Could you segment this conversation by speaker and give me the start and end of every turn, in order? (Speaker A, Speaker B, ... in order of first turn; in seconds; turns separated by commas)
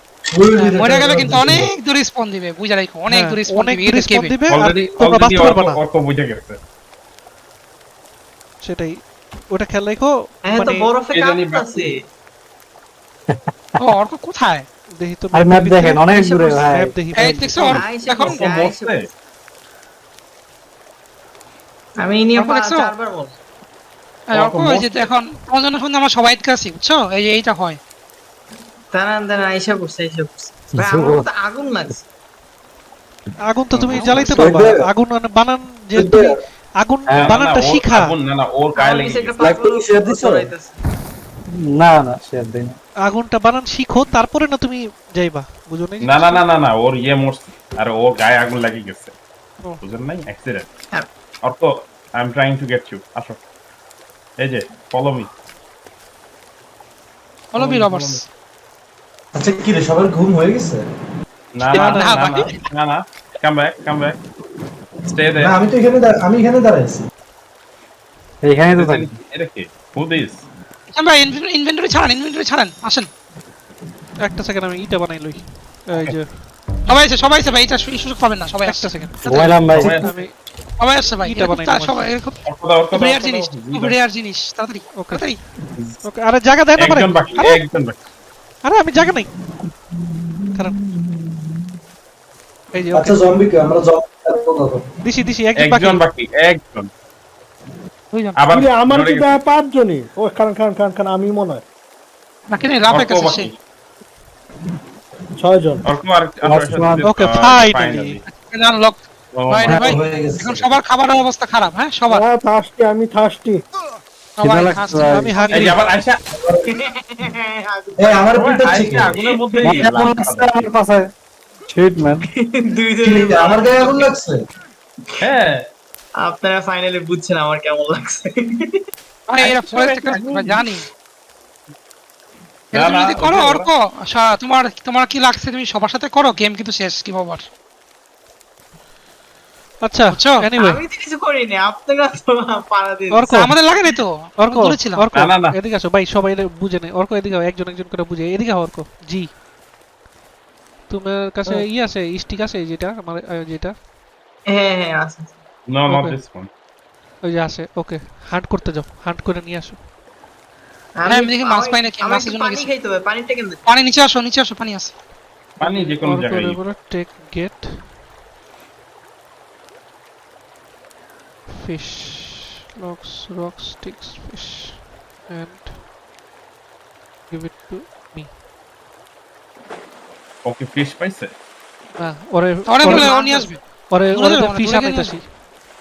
Speaker A: 0.3-1.7, Speaker B: 0.6-4.3, Speaker C: 3.1-5.8, Speaker D: 4.5-6.6, Speaker C: 8.6-8.9, Speaker C: 9.5-10.9, Speaker E: 10.4-12.0, Speaker D: 11.1-11.8, Speaker B: 13.8-14.7, Speaker C: 15.0-16.1, Speaker F: 15.3-17.0, Speaker E: 16.1-16.7, Speaker C: 16.7-17.8, Speaker B: 17.1-18.4, Speaker E: 17.6-19.0, Speaker D: 18.2-19.1, Speaker E: 22.0-23.4, Speaker B: 22.4-22.9, Speaker B: 24.3-27.8, Speaker D: 24.4-24.7, Speaker E: 28.9-32.0, Speaker F: 30.7-31.3, Speaker C: 33.5-38.0, Speaker D: 33.7-34.5, Speaker A: 34.3-34.9, Speaker A: 35.9-36.3, Speaker F: 37.1-37.3, Speaker D: 37.1-39.4, Speaker E: 38.8-40.7, Speaker A: 39.4-40.5, Speaker F: 41.6-42.8, Speaker C: 43.0-46.4, Speaker D: 46.0-49.1, Speaker D: 49.8-50.7, Speaker D: 51.4-53.4, Speaker D: 54.4-55.3, Speaker B: 57.5-58.2, Speaker D: 57.5-58.2, Speaker A: 59.3-60.8, Speaker D: 61.5-64.2, Speaker C: 61.7-62.4, Speaker B: 61.7-62.5, Speaker D: 65.1-65.6, Speaker A: 65.4-67.1, Speaker F: 68.4-69.1, Speaker D: 68.7-70.4, Speaker B: 70.9-73.1, Speaker C: 74.2-76.4, Speaker B: 76.9-79.4, Speaker C: 78.5-80.3, Speaker F: 79.2-80.1, Speaker D: 79.4-80.3, Speaker B: 80.8-82.4, Speaker C: 81.2-82.2, Speaker D: 82.4-84.0, Speaker B: 82.9-85.4, Speaker C: 84.9-85.3, Speaker C: 86.0-87.6, Speaker D: 86.8-88.0, Speaker C: 88.6-89.3, Speaker A: 90.3-91.4, Speaker C: 92.7-93.2, Speaker A: 92.9-94.9, Speaker C: 95.0-96.0, Speaker D: 95.5-96.9, Speaker B: 98.1-98.4, Speaker D: 98.3-99.4, Speaker G: 98.5-101.6, Speaker B: 102.5-103.5, Speaker D: 102.9-103.6, Speaker G: 105.4-105.8, Speaker D: 105.8-108.2, Speaker F: 106.4-107.1, Speaker C: 107.1-108.2, Speaker B: 108.4-112.2, Speaker D: 109.3-109.9, Speaker A: 109.8-110.6, Speaker G: 112.1-113.6, Speaker B: 114.4-115.7, Speaker F: 114.4-115.3, Speaker C: 115.1-115.8, Speaker D: 115.5-116.2, Speaker A: 116.3-116.7, Speaker E: 116.6-118.7, Speaker A: 118.0-119.2, Speaker D: 118.3-120.7, Speaker E: 119.4-119.9, Speaker F: 119.6-121.1, Speaker F: 121.7-122.2, Speaker E: 122.4-124.1, Speaker A: 123.0-124.4, Speaker D: 125.2-125.6, Speaker E: 126.2-128.8, Speaker B: 129.3-130.8, Speaker D: 129.4-130.7, Speaker D: 132.7-133.7, Speaker B: 132.7-137.4, Speaker C: 139.8-140.8, Speaker B: 140.1-140.4, Speaker E: 140.6-143.4, Speaker C: 143.1-143.6, Speaker B: 143.3-145.0, Speaker C: 144.4-149.4, Speaker D: 145.1-145.5, Speaker C: 150.9-153.7, Speaker E: 154.5-155.4, Speaker D: 155.7-156.5, Speaker C: 155.9-156.2, Speaker C: 157.2-159.8, Speaker E: 161.0-163.6, Speaker B: 161.1-162.7, Speaker B: 163.7-164.9, Speaker D: 165.6-166.6, Speaker C: 165.6-167.9, Speaker C: 171.6-175.8, Speaker C: 177.3-178.3, Speaker D: 180.4-181.3, Speaker C: 182.0-183.3, Speaker B: 182.7-185.1, Speaker E: 182.9-183.6, Speaker C: 183.9-185.2